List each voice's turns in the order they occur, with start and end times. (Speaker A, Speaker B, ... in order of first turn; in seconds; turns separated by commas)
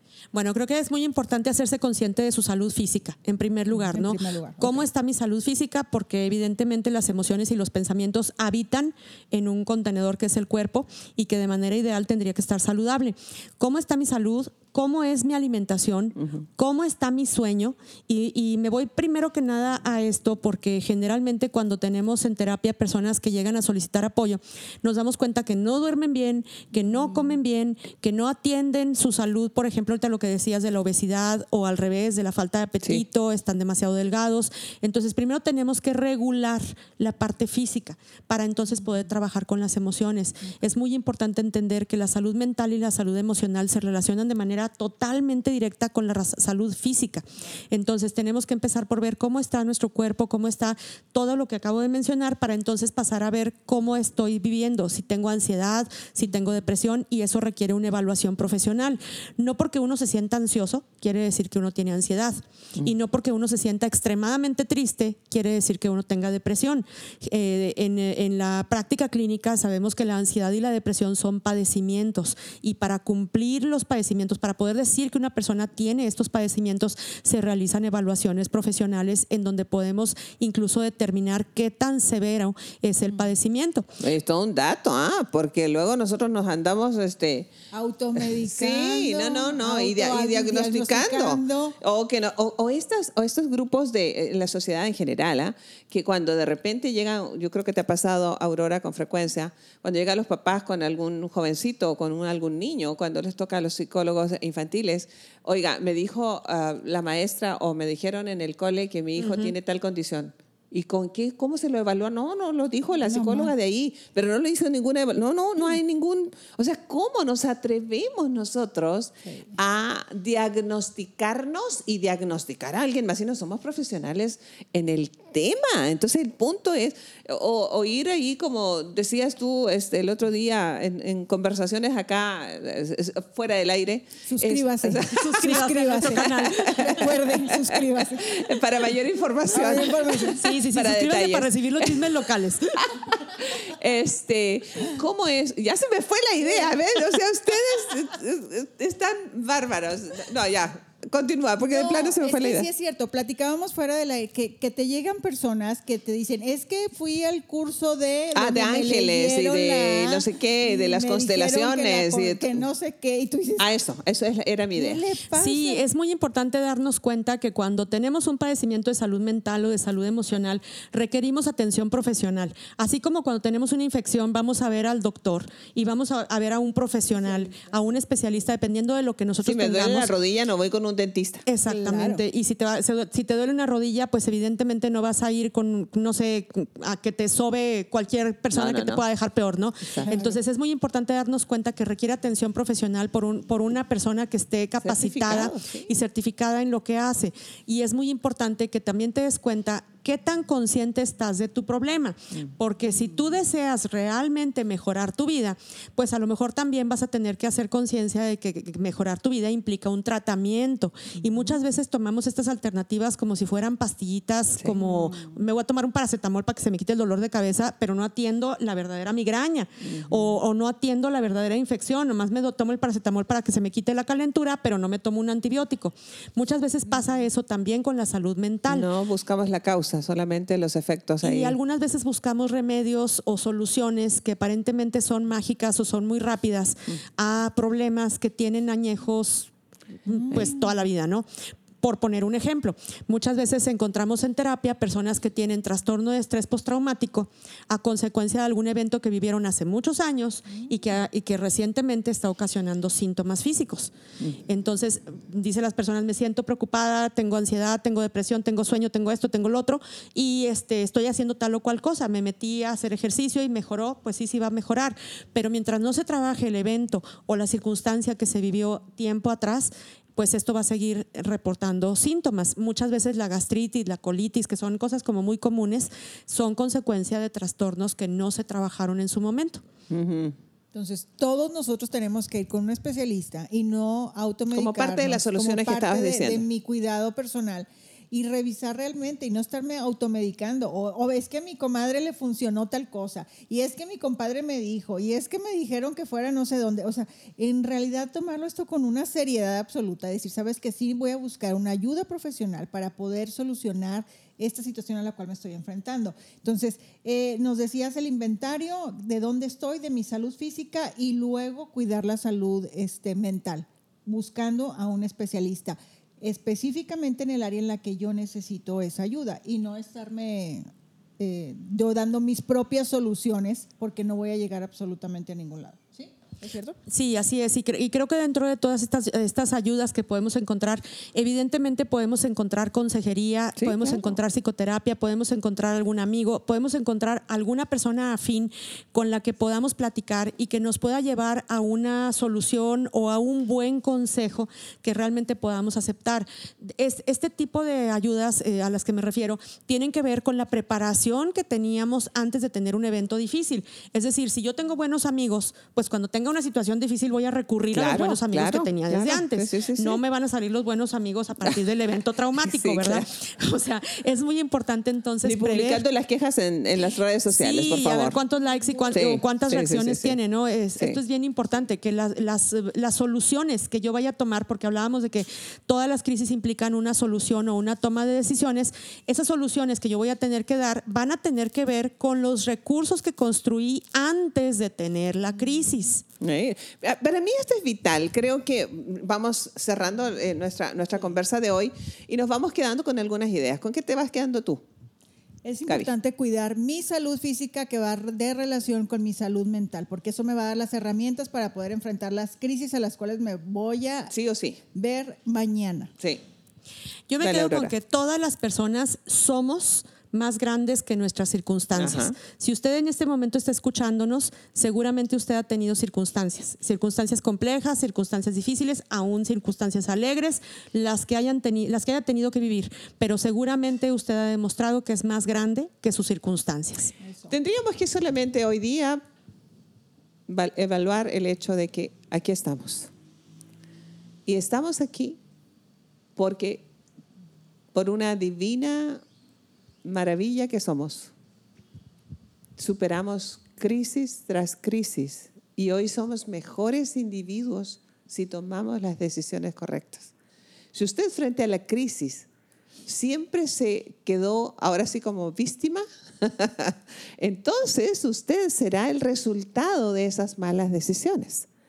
Speaker A: 0.3-83.9, Speaker B: 3.7-4.8, Speaker B: 26.9-27.3, Speaker C: 84.0-87.5, Speaker B: 87.7-91.8, Speaker C: 88.2-135.6, Speaker A: 109.2-109.5, Speaker B: 113.0-113.5, Speaker B: 134.3-138.5, Speaker A: 135.1-137.3, Speaker C: 136.2-142.2, Speaker B: 139.5-140.5, Speaker A: 140.3-142.8, Speaker C: 142.7-152.7, Speaker B: 151.6-163.7, Speaker C: 158.3-162.6, Speaker C: 163.6-165.0, Speaker B: 164.7-165.8, Speaker A: 165.3-180.1, Speaker B: 177.2-177.7, Speaker C: 179.4-181.4, Speaker A: 181.5-228.9, Speaker B: 181.7-182.2, Speaker C: 188.5-189.0, Speaker C: 189.8-190.1, Speaker B: 190.0-190.4, Speaker C: 194.8-195.9, Speaker B: 214.8-215.3, Speaker C: 219.8-220.3, Speaker C: 228.7-231.6, Speaker A: 231.2-239.5, Speaker A: 240.1-241.2, Speaker B: 240.1-240.5, Speaker A: 241.8-253.9, Speaker A: 254.5-279.6, Speaker C: 279.9-280.4, Speaker B: 280.7-320.7, Speaker C: 284.5-286.4, Speaker B: 321.2-326.8, Speaker A: 326.9-365.8, Speaker C: 333.6-334.1, Speaker C: 357.7-360.0, Speaker C: 362.4-363.1, Speaker C: 365.2-368.2, Speaker A: 367.3-386.0, Speaker C: 368.9-370.2, Speaker C: 386.2-394.6, Speaker B: 395.4-404.1, Speaker C: 404.1-404.6, Speaker B: 404.7-405.9, Speaker A: 407.1-426.9, Speaker C: 407.2-407.7, Speaker C: 411.7-412.2, Speaker B: 427.0-427.3, Speaker C: 427.3-429.0, Speaker C: 430.3-432.9, Speaker C: 434.2-435.2, Speaker C: 436.1-436.6, Speaker C: 437.7-439.0, Speaker C: 439.8-441.1, Speaker C: 442.6-450.1, Speaker C: 450.7-452.3, Speaker C: 452.9-461.5